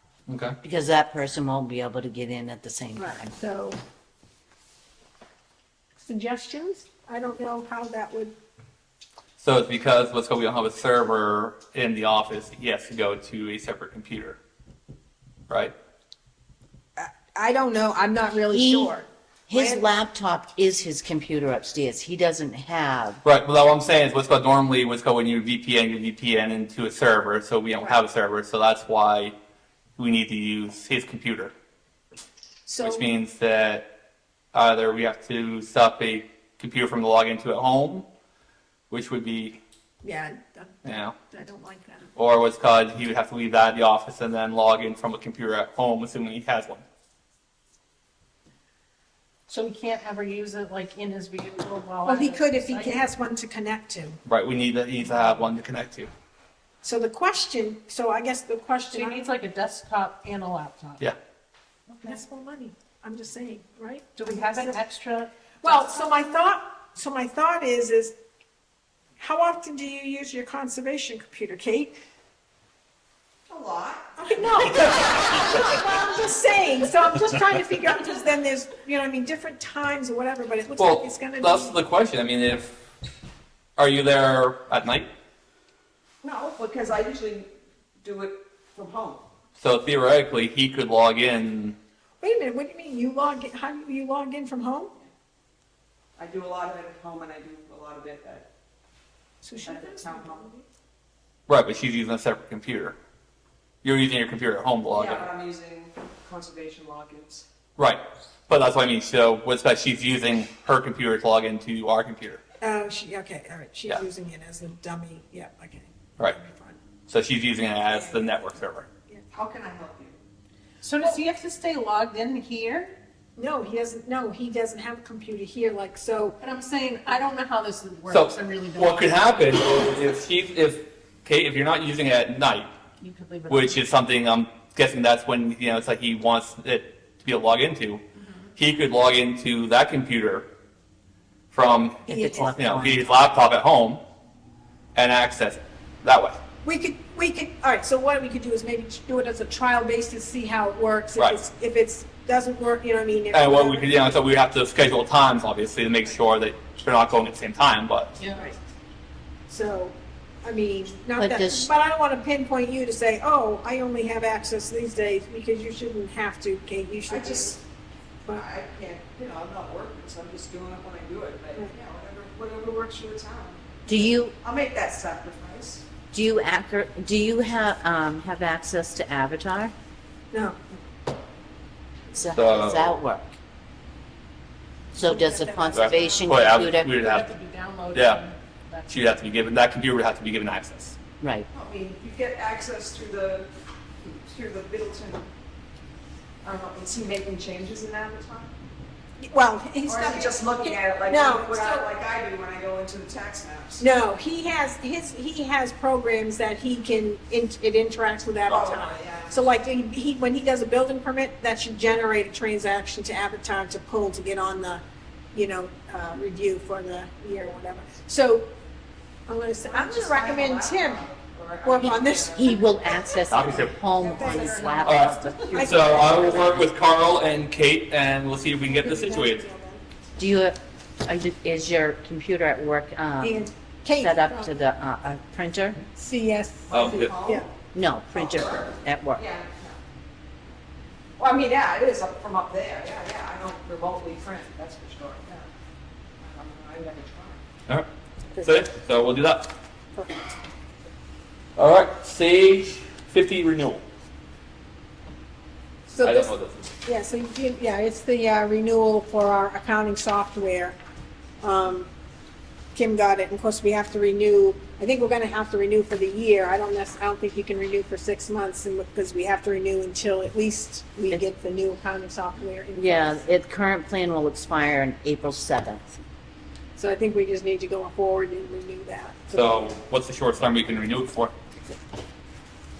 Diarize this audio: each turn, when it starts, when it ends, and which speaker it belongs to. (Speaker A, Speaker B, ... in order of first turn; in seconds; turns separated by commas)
Speaker A: 0.3-0.6, Speaker B: 0.6-3.3, Speaker C: 3.0-3.8, Speaker C: 6.0-8.3, Speaker A: 9.4-14.4, Speaker A: 15.5-15.7, Speaker C: 17.0-19.9, Speaker B: 18.5-18.9, Speaker B: 19.5-23.2, Speaker A: 23.2-29.3, Speaker A: 30.0-31.5, Speaker C: 32.6-33.0, Speaker A: 32.8-33.9, Speaker A: 34.5-38.0, Speaker A: 38.9-39.6, Speaker C: 40.0-42.1, Speaker A: 40.8-41.1, Speaker A: 42.1-46.8, Speaker D: 49.5-53.0, Speaker C: 52.0-54.2, Speaker A: 54.2-56.1, Speaker C: 56.8-59.2, Speaker D: 58.9-61.0, Speaker C: 62.0-64.8, Speaker D: 64.2-66.4, Speaker C: 65.6-68.1, Speaker C: 69.2-72.0, Speaker E: 73.5-75.0, Speaker C: 74.2-81.8, Speaker A: 80.8-82.8, Speaker A: 83.8-85.1, Speaker E: 86.2-87.5, Speaker E: 88.0-89.2, Speaker A: 89.6-91.8, Speaker C: 92.2-94.9, Speaker E: 96.2-98.5, Speaker C: 99.4-100.6, Speaker E: 99.6-100.5, Speaker A: 101.5-103.0, Speaker A: 103.8-105.3, Speaker E: 104.9-107.4, Speaker A: 107.8-112.4, Speaker C: 112.6-116.8, Speaker A: 117.1-118.9, Speaker C: 117.9-118.5, Speaker E: 119.3-120.2, Speaker D: 120.8-122.9, Speaker C: 123.4-126.4, Speaker D: 126.4-129.2, Speaker A: 128.1-132.7, Speaker D: 133.0-133.8, Speaker A: 133.5-138.0, Speaker A: 138.6-140.5, Speaker A: 141.5-144.0, Speaker B: 142.1-143.3, Speaker A: 144.9-146.4, Speaker C: 146.6-154.2, Speaker A: 153.3-158.1, Speaker D: 158.2-158.4, Speaker C: 159.5-167.6, Speaker B: 161.2-161.7, Speaker E: 167.1-167.6, Speaker E: 168.3-175.8, Speaker B: 173.8-174.3, Speaker B: 176.1-179.7, Speaker C: 180.3-180.6, Speaker B: 182.1-183.3, Speaker A: 182.3-183.0, Speaker C: 184.9-186.5, Speaker B: 184.9-186.9, Speaker A: 185.7-187.3, Speaker D: 186.9-189.2, Speaker A: 187.9-188.2, Speaker A: 188.9-190.9, Speaker B: 191.2-191.5, Speaker E: 191.5-193.5, Speaker E: 194.0-195.2, Speaker E: 196.4-198.5, Speaker C: 199.2-201.8, Speaker E: 199.8-203.8, Speaker C: 203.8-218.5, Speaker E: 208.5-209.4, Speaker C: 219.3-221.0, Speaker E: 219.6-222.6, Speaker C: 221.6-223.2, Speaker B: 221.8-226.6, Speaker A: 223.3-223.7, Speaker C: 224.0-226.5, Speaker D: 224.1-225.4, Speaker A: 224.8-229.5, Speaker C: 228.4-229.8, Speaker B: 230.2-235.8, Speaker C: 233.2-234.6, Speaker C: 235.9-237.5, Speaker E: 236.7-237.5, Speaker A: 236.7-237.1, Speaker B: 237.7-239.2, Speaker E: 238.1-239.8, Speaker E: 241.2-245.4, Speaker E: 246.2-247.4, Speaker A: 248.4-249.5, Speaker C: 249.9-250.2, Speaker A: 251.6-253.8, Speaker C: 255.9-260.8, Speaker A: 256.0-256.7, Speaker C: 261.4-261.9, Speaker C: 262.7-273.3, Speaker B: 272.7-276.0, Speaker C: 276.8-279.7, Speaker A: 279.3-281.3